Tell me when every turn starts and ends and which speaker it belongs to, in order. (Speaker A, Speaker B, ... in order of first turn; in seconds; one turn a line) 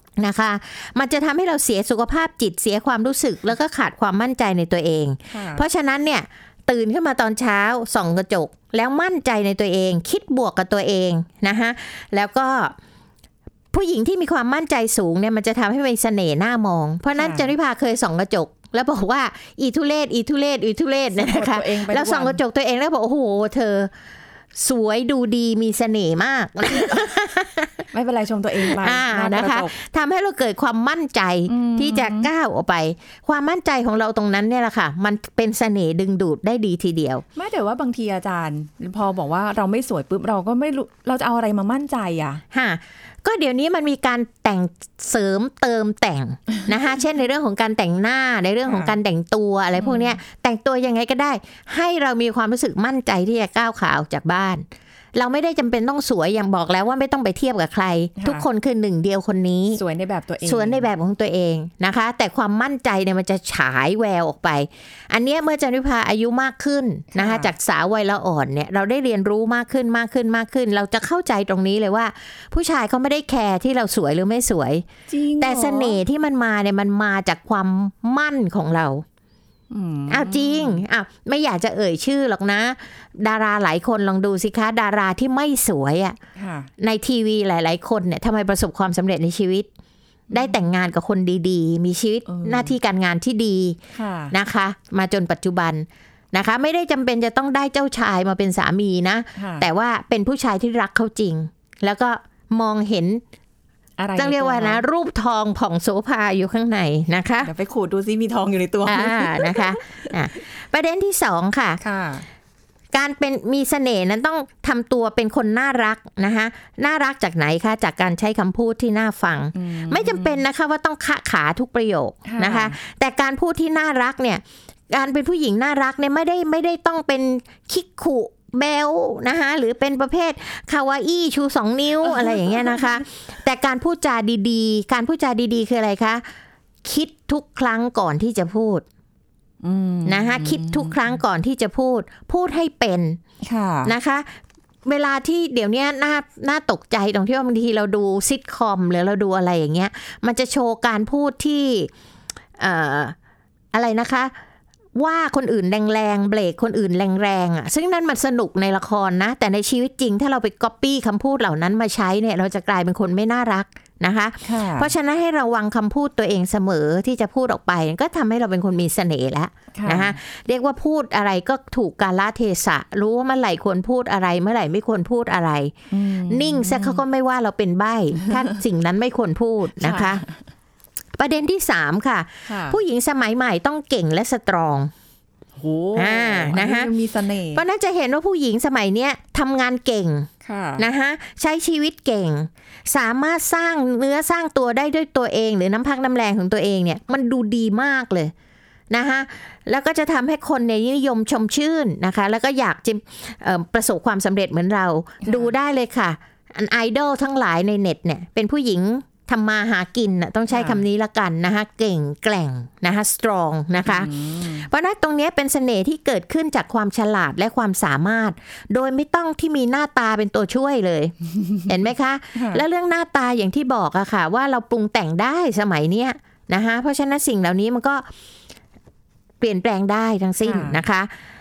Speaker A: 0.2-12.8
Speaker B: 5.3-5.6
Speaker A: 13.7-23.9
Speaker B: 17.2-17.5
Speaker B: 21.1-22.4
Speaker A: 24.6-27.9
Speaker B: 27.9-29.7
Speaker A: 28.7-37.2
Speaker B: 31.5-32.3
Speaker B: 37.4-42.4
Speaker A: 42.5-59.8
Speaker B: 48.7-49.0
Speaker B: 49.8-50.2
Speaker B: 58.2-58.5
Speaker B: 59.7-60.9
Speaker A: 60.5-74.8
Speaker B: 67.1-67.5
Speaker B: 75.1-76.0
Speaker A: 75.4-79.0
Speaker B: 79.7-80.8
Speaker A: 80.1-86.2
Speaker B: 86.4-86.7
Speaker A: 86.8-89.7
Speaker B: 90.3-90.6
Speaker A: 90.3-93.8
Speaker B: 92.3-92.7
Speaker B: 93.9-94.3
Speaker A: 94.3-103.2
Speaker B: 99.3-99.7
Speaker B: 104.0-104.8
Speaker A: 104.2-107.5
Speaker B: 107.4-110.1
Speaker A: 108.8-111.8
Speaker B: 111.8-112.3
Speaker A: 112.9-136.3
Speaker B: 119.5-120.4
Speaker B: 122.2-122.8
Speaker B: 132.0-133.0
Speaker A: 136.8-138.8
Speaker B: 139.6-141.2
Speaker A: 140.1-143.2
Speaker B: 143.4-143.9
Speaker A: 143.8-151.9
Speaker A: 152.6-153.2
Speaker A: 153.7-154.3
Speaker A: 154.9-175.8
Speaker B: 164.4-164.9
Speaker B: 169.7-170.2
Speaker B: 175.9-177.0
Speaker A: 176.3-180.2
Speaker B: 179.8-180.4
Speaker A: 181.2-184.9
Speaker B: 182.5-182.8
Speaker B: 185.6-187.6
Speaker A: 185.9-186.9
Speaker A: 187.5-198.3
Speaker B: 190.4-190.8
Speaker A: 198.9-228.1
Speaker B: 205.2-205.5
Speaker B: 210.5-210.8
Speaker B: 213.8-214.7
Speaker B: 222.3-222.6
Speaker A: 229.4-231.1
Speaker B: 230.4-230.8